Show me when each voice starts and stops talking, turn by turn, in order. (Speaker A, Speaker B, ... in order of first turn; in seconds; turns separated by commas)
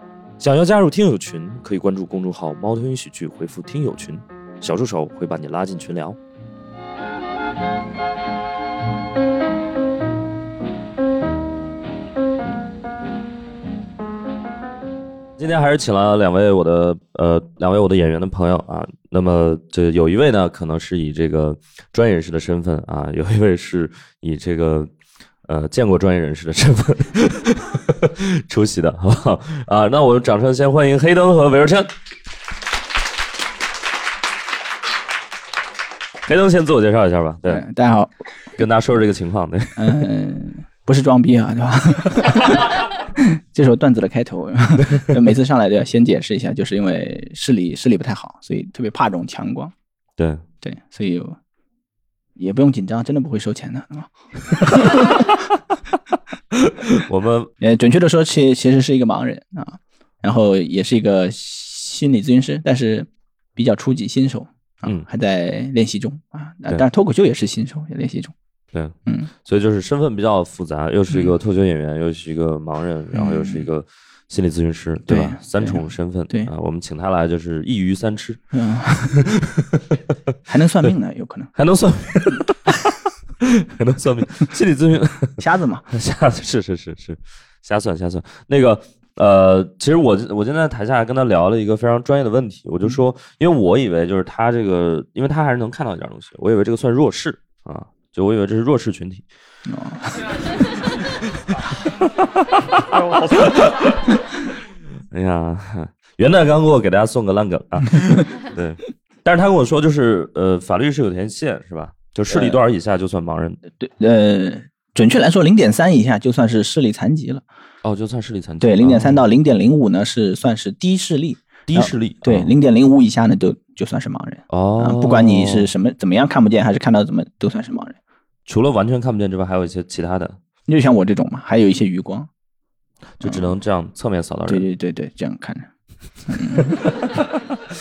Speaker A: 0.4-6.2, Speaker A: 15.4-24.9, Speaker A: 25.5-31.9, Speaker A: 36.3-37.6, Speaker B: 37.5-38.1, Speaker A: 38.6-40.0, Speaker B: 39.8-42.7, Speaker B: 43.2-49.7, Speaker B: 50.6-51.4, Speaker B: 52.4-54.1, Speaker B: 54.6-55.2, Speaker A: 57.0-57.5, Speaker B: 57.6-68.3, Speaker A: 68.7-78.4, Speaker B: 73.1-73.7, Speaker B: 75.1-76.5, Speaker B: 78.5-79.3, Speaker B: 80.5-81.5, Speaker A: 81.6-82.6, Speaker A: 83.8-99.2, Speaker B: 85.4-85.9, Speaker B: 99.7-100.1, Speaker A: 103.3-104.0, Speaker A: 105.1-113.6, Speaker B: 112.3-112.6, Speaker B: 113.8-117.4, Speaker A: 117.8-119.2, Speaker B: 118.6-128.0, Speaker A: 121.7-122.5, Speaker A: 124.5-125.7, Speaker A: 128.5-130.4, Speaker B: 130.7-132.3, Speaker A: 133.2-134.7, Speaker B: 133.2-133.5, Speaker B: 134.5-135.7, Speaker B: 136.3-136.8, Speaker A: 136.9-137.2